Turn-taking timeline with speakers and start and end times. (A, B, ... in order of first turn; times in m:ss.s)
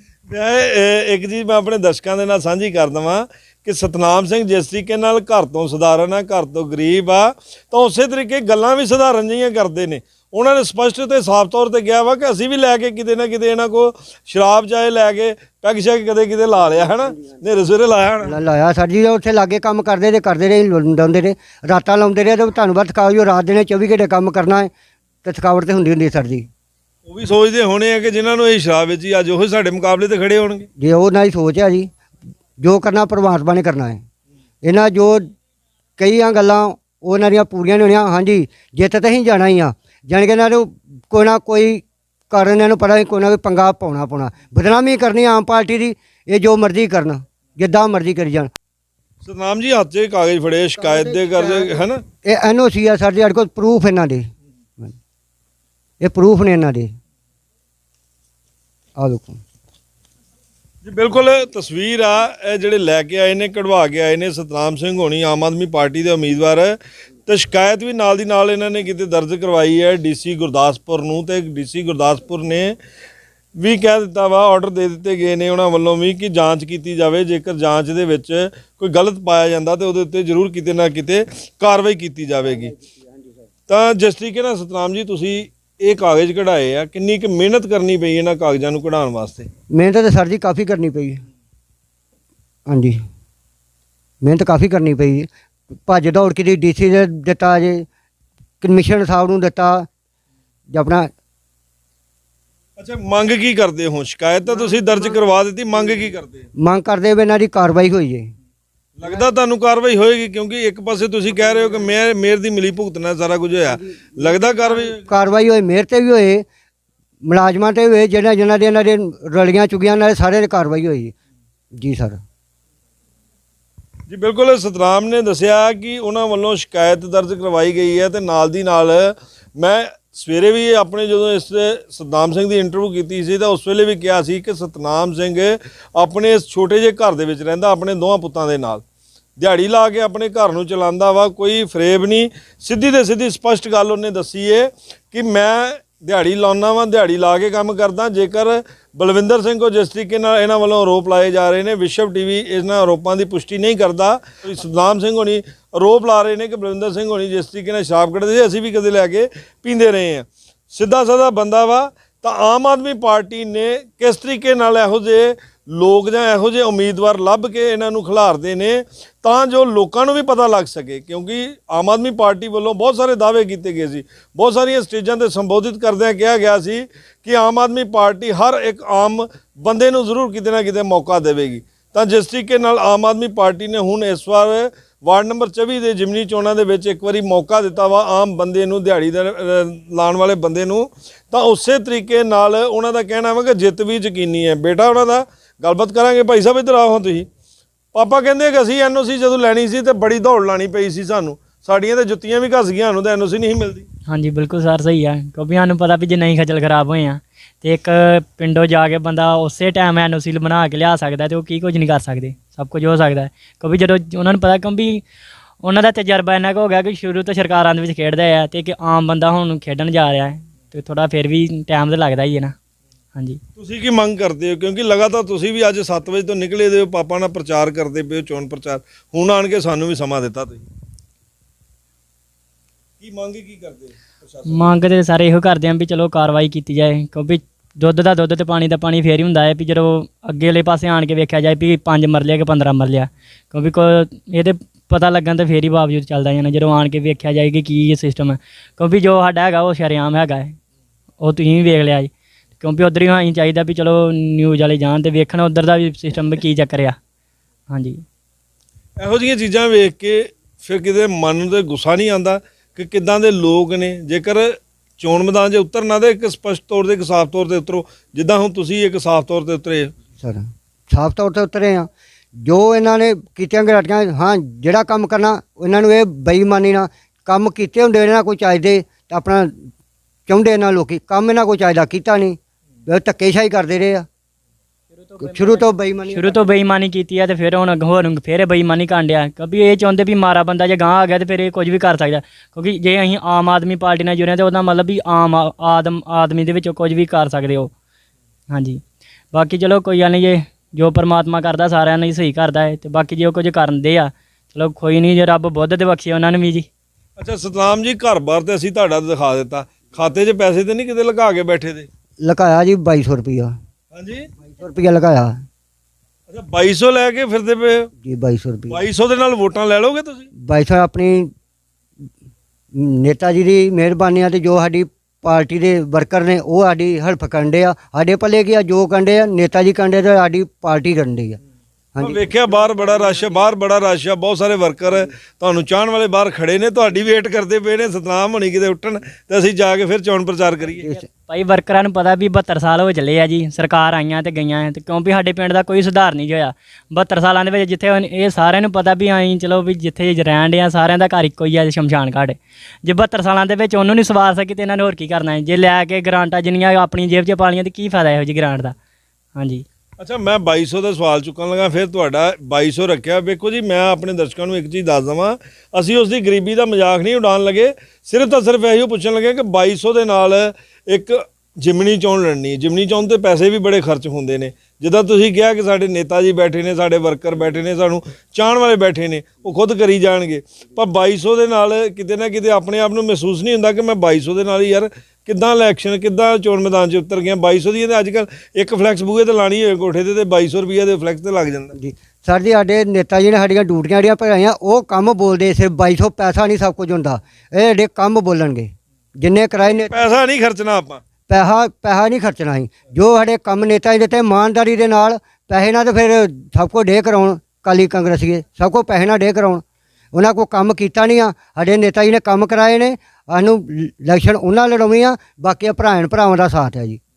0:00.3-0:18.4 A
0:18.2-0:24.7 B
0:25.2-0:26.5 B
0:27.0-0:30.7 A
0:30.8-0:31.9 B
0:32.6-0:34.0 B
0:34.6-0:35.2 B
0:36.0-0:48.5 B
0:49.2-0:52.0 A
0:50.8-0:54.3 B
0:56.0-0:56.9 B
0:59.0-0:59.4 B
1:00.8-1:12.8 A
1:13.6-1:22.7 A
1:23.7-1:29.5 A
1:29.7-1:31.2 B
1:32.7-1:33.0 B
1:34.2-1:35.3 B
1:35.8-1:37.8 B
1:38.6-1:39.8 B
1:40.7-1:41.1 B
1:42.8-1:46.5 A
1:46.6-1:48.3 B
1:49.0-1:55.0 A
1:53.8-1:56.4 B
1:57.2-2:01.1 B
2:01.7-2:02.2 B
2:04.1-2:18.8 A
2:19.4-3:17.3 A
3:17.9-3:23.9 A
3:24.1-3:35.0 C
3:35.6-3:42.5 C
3:43.1-3:43.4 C
3:43.6-3:50.6 A
3:53.0-3:54.7 A
3:54.5-4:10.5 C
4:11.2-4:17.0 C
4:17.7-4:18.0 C
4:19.0-4:29.9 A
4:30.2-4:39.6 B
4:40.3-4:44.0 B
4:45.0-4:57.7 C
4:45.2-4:46.4 B
4:58.5-4:58.8 C
4:59.3-5:06.7 C
5:07.2-5:11.9 A
5:12.2-5:13.5 B
5:13.9-5:14.3 A
5:14.5-5:15.4 B
5:16.3-5:17.9 A
5:18.0-5:18.8 B
5:18.7-5:20.3 A
5:20.3-5:21.3 B
5:22.7-5:31.4 B
5:32.0-5:40.9 A
5:40.8-5:58.8 C
5:59.4-5:59.6 C
6:00.0-6:31.7 A
6:31.7-6:40.0 B
6:39.6-6:41.0 A
6:41.3-6:49.6 B
6:50.1-6:57.0 B